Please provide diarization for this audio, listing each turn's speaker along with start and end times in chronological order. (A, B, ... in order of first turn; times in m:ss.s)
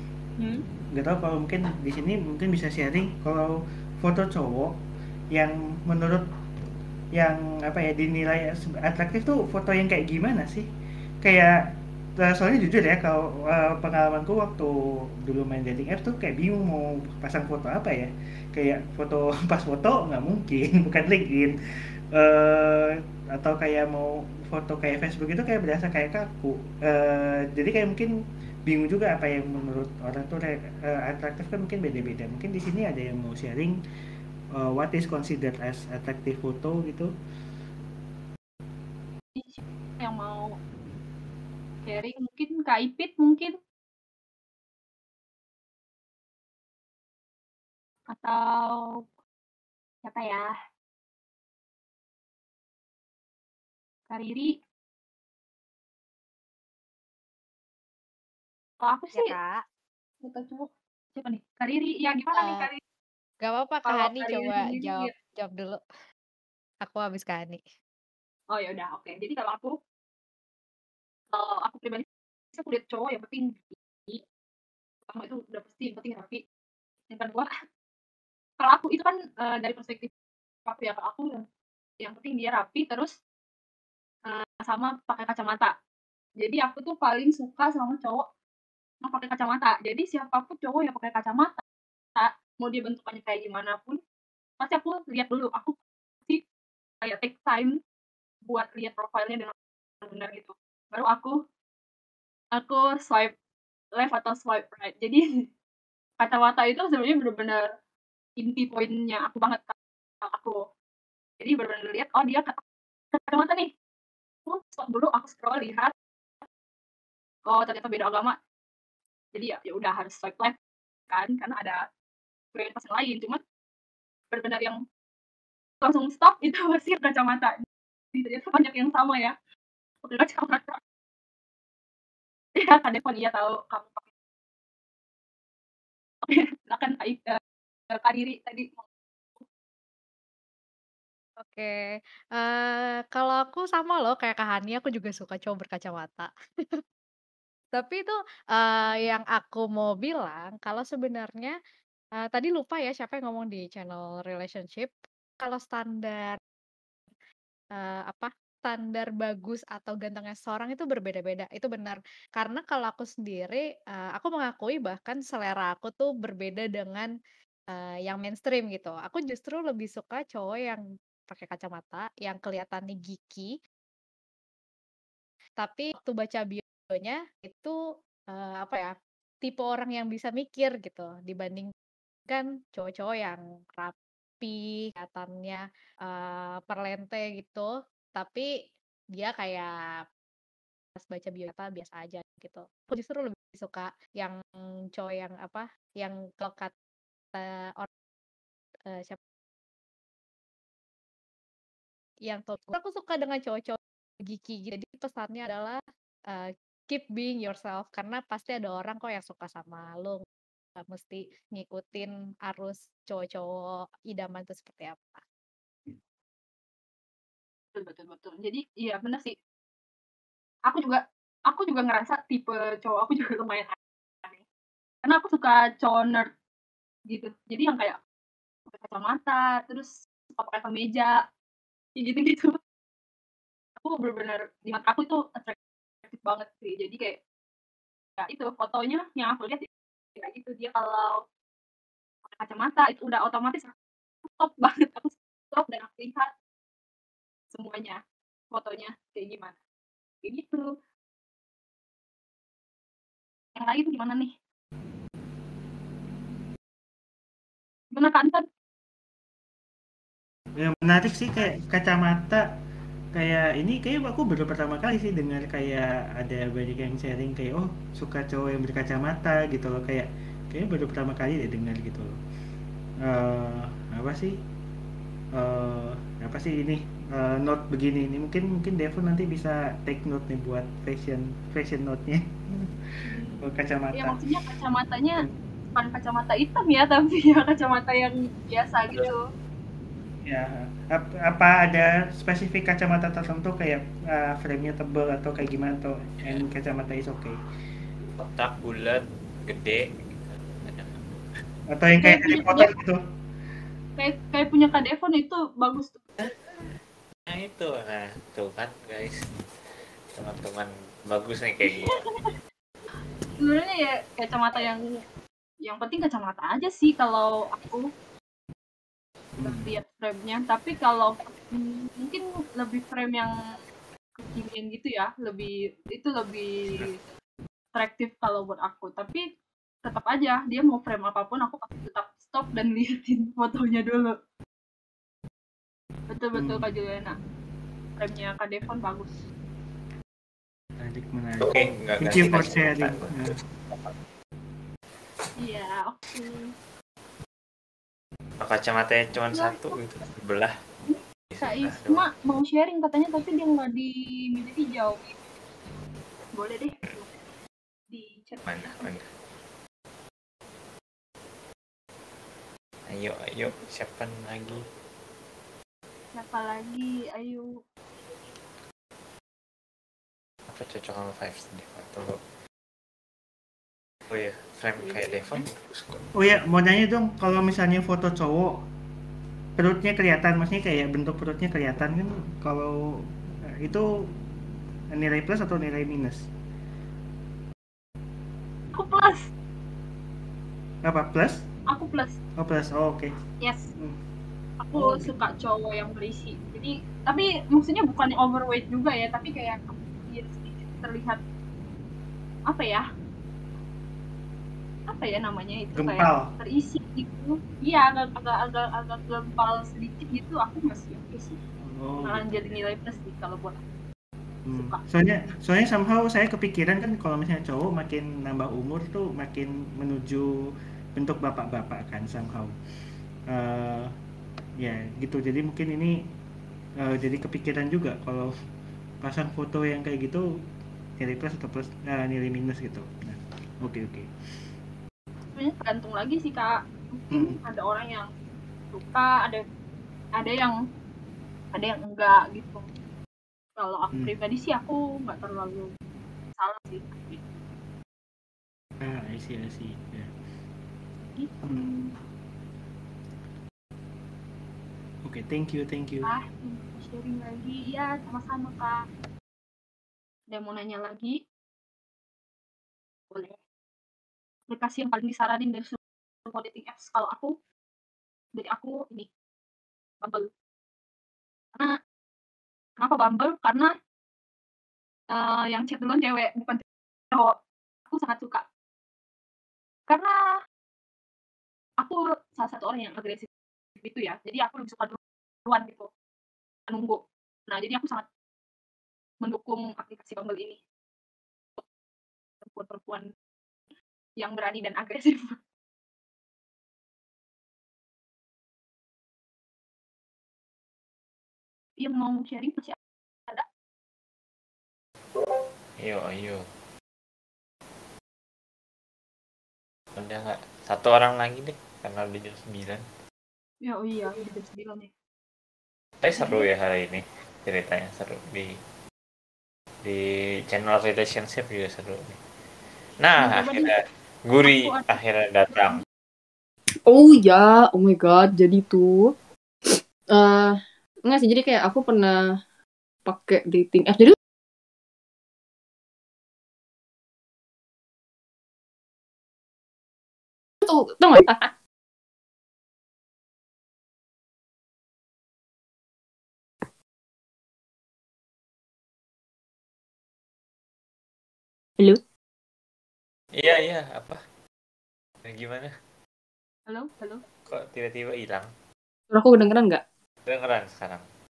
0:00.4-0:00.6 A
0:00.9-0:03.5 B
0:04.0-0:04.8 B
0:05.3-0:06.2 B
0:07.2-0:10.7 B
0:11.2-0:11.5 B
0:12.2-0:14.7 B
0:15.2-0:21.5 B
0:22.1-0:28.1 B
0:28.6-0:33.8 B
0:34.6-0:37.1 B
0:39.4-0:40.6 A
0:41.8-0:43.5 A
0:48.1-0:48.8 A
0:50.0-0:50.5 A
0:54.1-0:54.6 A
0:58.8-0:59.4 A
0:59.1-0:59.6 C
1:00.2-1:02.8 A
1:02.4-1:02.7 C
1:03.4-1:05.8 C
1:03.8-1:05.1 A
1:06.8-1:07.6 C
1:08.5-1:09.7 A
1:11.3-1:14.2 A
1:15.1-1:16.4 A
1:17.1-1:17.5 A
1:18.6-1:20.1 A
1:20.6-1:21.4 A
1:22.0-1:23.1 A
1:24.3-1:25.7 A
1:26.4-1:28.2 A
1:29.0-1:31.6 A
1:32.2-1:34.0 A
1:34.6-1:35.7 A
1:37.0-1:37.7 A
1:38.5-1:41.4 A
1:42.5-1:43.3 A
1:44.0-1:45.2 A
1:46.2-1:47.6 A
1:48.4-1:50.6 A
1:51.4-1:52.6 A
1:53.1-1:53.7 A
1:54.4-1:55.9 A
1:57.5-1:58.4 A
1:59.3-2:00.5 A
2:01.1-2:01.8 A
2:02.5-2:03.4 A
2:04.3-2:04.8 A
2:05.8-2:07.6 A
2:08.1-2:09.3 A
2:10.0-2:10.8 A
2:12.6-2:14.1 A
2:16.2-2:17.4 A
2:17.9-2:18.8 A
2:21.4-2:21.8 C
2:22.4-2:26.8 C
2:27.7-2:31.5 C
2:32.3-2:36.4 C
2:37.8-2:47.1 C
2:47.7-2:53.5 C
2:55.6-2:57.7 C
2:58.3-3:01.7 C
3:02.3-3:08.5 C
3:09.2-3:09.7 C
3:11.0-3:14.4 C
3:14.9-3:16.7 C
3:17.3-3:17.9 C
3:18.9-3:19.2 C
3:22.3-3:25.8 C
3:26.3-3:30.2 C
3:30.8-3:33.5 C
3:34.1-3:35.2 C
3:37.7-3:39.3 A
3:40.7-3:44.4 A
3:45.0-3:46.3 A
3:47.1-3:48.0 A
3:48.7-3:51.2 A
3:52.0-3:52.6 A
3:53.8-3:57.2 A
3:58.2-4:01.2 A
4:02.3-4:03.7 A
4:04.3-4:06.3 A
4:07.5-4:08.0 A
4:08.5-4:09.6 A
4:10.2-4:10.7 A
4:13.6-4:14.3 A
4:17.9-4:18.4 A
4:20.6-4:22.4 B
4:23.1-4:32.1 B
4:33.0-4:34.3 B
4:35.4-4:42.7 B
4:43.0-4:49.2 A
4:43.4-4:44.2 B
4:50.2-4:57.4 B
4:58.2-5:01.2 D
5:01.7-5:03.0 B
5:02.0-5:02.7 A
5:04.0-5:06.2 A
5:07.3-5:09.2 D
5:10.2-5:12.0 D
5:11.7-5:12.3 A
5:13.4-5:14.8 A
5:15.6-5:17.9 A
5:19.4-5:19.8 B
5:19.4-5:23.3 A
5:24.2-5:27.1 A
5:27.7-5:29.2 A
5:29.8-5:34.1 A
5:36.1-5:37.2 A
5:36.4-5:36.7 B
5:38.0-5:39.2 A
5:40.8-5:43.4 B
5:41.4-5:43.1 D
5:45.4-5:46.5 A
5:48.4-5:50.5 D
5:49.3-5:49.7 A
5:50.9-5:55.2 A
5:51.3-5:52.1 D
5:56.3-5:57.1 A
5:57.9-5:59.0 A
5:58.5-5:59.1 D
6:02.9-6:04.6 D
6:06.1-6:07.4 A
6:10.5-6:12.2 D
6:14.1-6:15.5 D
6:14.8-6:15.1 A
6:16.1-6:18.5 B
6:19.6-6:23.0 B
6:23.6-6:23.9 B
6:24.9-6:26.3 B
6:28.7-6:29.3 A
6:30.8-6:31.4 B
6:31.7-6:32.2 A
6:32.4-6:33.1 B
6:33.4-6:33.7 A
6:34.6-6:41.2 A
6:34.8-6:35.1 B
6:42.5-6:42.8 A
6:44.9-6:51.4 A
6:45.7-6:46.3 B
6:51.6-6:52.6 B
6:52.0-6:53.6 A
6:54.4-7:00.3 B
6:54.5-6:55.3 A
7:01.0-7:02.5 B
7:03.3-7:03.9 B
7:04.6-7:05.9 B
7:06.8-7:08.3 B
7:09.0-7:10.2 B
7:11.0-7:14.1 B
7:15.3-7:18.1 A
7:17.1-7:17.4 B
7:18.7-7:19.4 A
7:20.2-7:20.6 A
7:21.5-7:22.6 A
7:23.6-7:25.7 A
7:26.4-7:27.2 A
7:28.8-7:30.1 B
7:31.4-7:31.9 B
7:35.0-7:36.1 B
7:36.0-7:38.8 A
7:40.3-7:41.2 A
7:43.1-7:43.4 A
7:44.5-7:47.3 A
7:48.4-7:49.1 A
7:50.0-7:50.3 A
7:52.8-7:53.7 A
7:55.1-7:57.3 A
7:57.9-7:58.4 A
8:01.8-8:03.3 A
8:03.8-8:05.9 A
8:06.7-8:08.0 A
8:09.2-8:10.6 A
8:12.4-8:13.0 A
8:14.2-8:15.4 A
8:21.8-8:22.8 A
8:25.8-8:26.4 D
8:30.0-8:32.8 D
8:33.6-8:34.9 A
8:36.0-8:38.5 D
8:36.1-8:36.4 A
8:39.8-8:42.2 D
8:43.0-8:43.7 D
8:43.2-8:43.8 A
8:44.2-8:45.8 D
8:44.4-8:44.9 A
8:46.9-8:49.1 E
8:49.7-8:52.2 E
8:53.0-8:54.2 E
9:00.6-9:01.5 E
9:13.4-9:14.2 D
9:15.2-9:15.7 D
9:16.7-9:17.2 A
9:17.5-9:18.5 D
9:19.1-9:19.8 E
9:20.3-9:21.0 D